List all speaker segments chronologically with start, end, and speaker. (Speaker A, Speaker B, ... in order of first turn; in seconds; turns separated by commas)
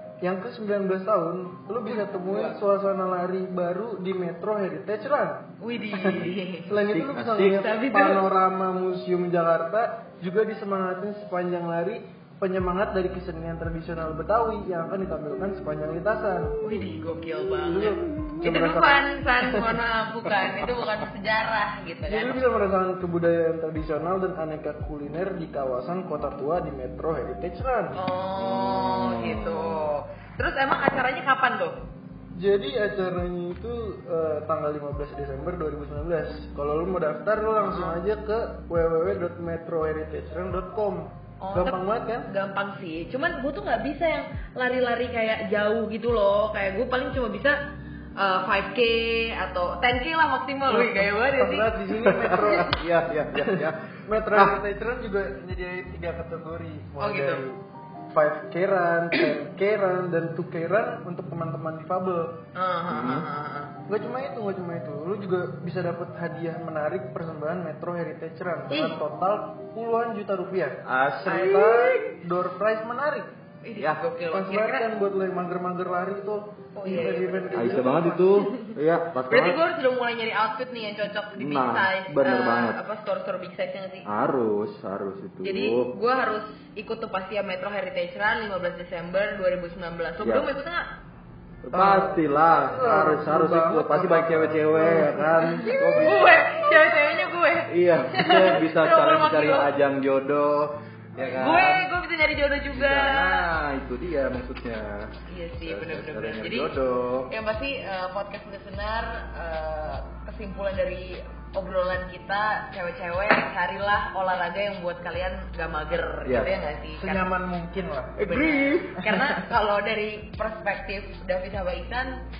Speaker A: 0.2-16.6, Speaker B: 5.6-6.8, Speaker C: 6.7-7.8, Speaker B: 7.4-8.2, Speaker B: 16.6-22.4, Speaker A: 17.6-19.8, Speaker A: 22.1-28.0, Speaker B: 27.9-31.8, Speaker C: 28.4-29.9, Speaker A: 32.4-42.3, Speaker B: 37.6-38.0, Speaker B: 41.4-47.6, Speaker B: 48.2-52.8, Speaker A: 50.7-52.7, Speaker C: 52.0-54.6, Speaker A: 53.3-57.6, Speaker B: 57.0-57.4, Speaker A: 58.1-62.4, Speaker B: 62.5-63.7, Speaker C: 62.9-63.3, Speaker A: 63.9-73.3, Speaker B: 68.7-69.0, Speaker C: 70.9-72.1, Speaker B: 73.6-74.9, Speaker C: 73.8-74.1, Speaker A: 74.3-78.4, Speaker B: 76.8-78.8, Speaker C: 76.9-79.6, Speaker B: 79.3-84.1, Speaker C: 81.4-82.8, Speaker C: 84.1-85.9, Speaker B: 85.4-90.9, Speaker C: 90.2-90.5, Speaker C: 91.6-96.3, Speaker A: 91.7-96.3, Speaker B: 95.6-99.7, Speaker C: 97.7-101.8, Speaker B: 101.2-103.5, Speaker C: 102.7-105.1, Speaker B: 105.3-106.8, Speaker C: 105.6-107.3, Speaker B: 107.3-117.3, Speaker C: 116.3-116.5, Speaker A: 116.9-118.3, Speaker C: 118.2-119.0, Speaker B: 118.2-122.2